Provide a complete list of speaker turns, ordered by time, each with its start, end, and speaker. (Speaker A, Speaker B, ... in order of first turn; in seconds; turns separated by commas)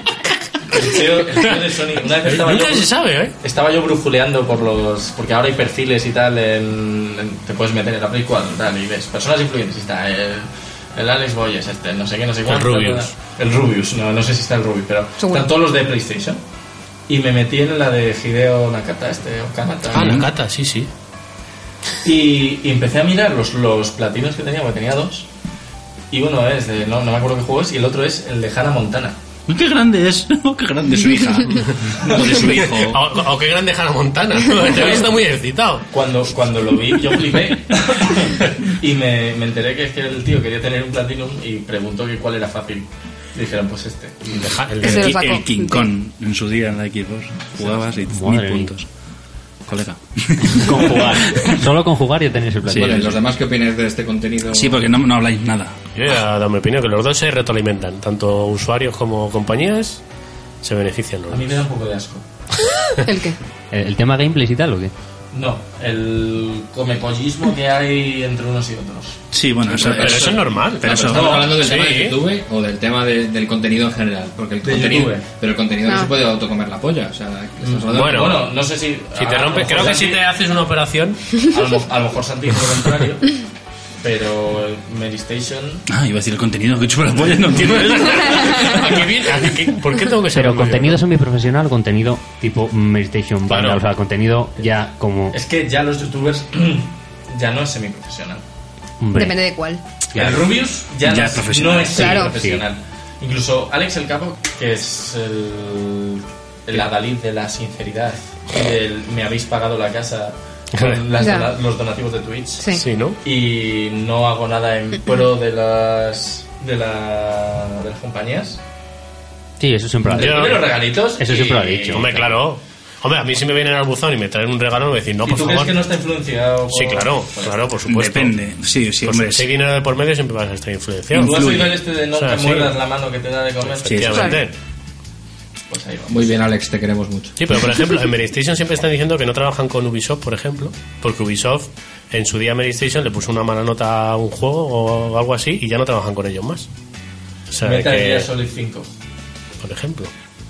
Speaker A: 0.7-16.4, Speaker B: 2.2-3.3, Speaker B: 12.5-13.1, Speaker C: 15.2-15.5, Speaker A: 17.1-20.2, Speaker B: 19.9-20.9, Speaker D: 20.0-20.3, Speaker A: 22.0-25.3, Speaker A: 26.1-29.2, Speaker D: 29.5-33.0, Speaker A: 32.0-32.3, Speaker B: 32.4-35.9, Speaker A: 35.9-44.5, Speaker B: 44.3-45.2, Speaker C: 44.8-45.9, Speaker D: 44.8-48.9, Speaker A: 47.6-48.0, Speaker E: 48.1-48.7, Speaker D: 49.7-51.6, Speaker E: 50.5-53.2, Speaker F: 52.7-54.9, Speaker D: 54.5-55.8, Speaker B: 56.0-60.0, Speaker B: 60.6-61.5, Speaker A: 61.3-62.2, Speaker C: 63.0-63.4, Speaker E: 63.7-64.9, Speaker A: 65.3-69.2, Speaker D: 69.3-71.5, Speaker F: 69.7-78.4, Speaker B: 69.9-72.2, Speaker A: 70.9-71.5, Speaker A: 74.6-75.2, Speaker C: 75.8-76.1, Speaker A: 77.6-80.2, Speaker B: 77.9-78.5, Speaker B: 79.2-81.2, Speaker A: 81.5-83.4, Speaker A: 84.0-85.8, Speaker D: 85.9-89.0, Speaker B: 87.8-91.0, Speaker E: 90.3-95.4, Speaker B: 93.5-93.8, Speaker A: 95.3-98.4, Speaker E: 99.0-99.4, Speaker C: 99.1-99.8, Speaker E: 100.1-100.5, Speaker A: 100.1-118.6, Speaker D: 101.0-102.1, Speaker E: 102.0-102.6, Speaker C: 102.0-102.3, Speaker B: 110.7-111.0, Speaker C: 111.2-111.5, Speaker B: 112.7-113.2, Speaker E: 119.6-122.3, Speaker A: 120.1-122.3, Speaker B: 120.2-120.6, Speaker B: 121.9-125.8, Speaker A: 125.2-127.6, Speaker B: 126.7-128.4, Speaker D: 127.9-129.5, Speaker B: 129.0-131.5, Speaker D: 131.1-131.8, Speaker A: 131.2-134.3, Speaker B: 132.2-132.8, Speaker B: 133.8-134.5, Speaker D: 133.9-134.4, Speaker C: 134.1-134.4, Speaker A: 135.7-136.3, Speaker F: 136.1-137.3, Speaker B: 137.4-146.7, Speaker B: 147.5-148.3, Speaker A: 147.6-148.9, Speaker B: 149.6-150.1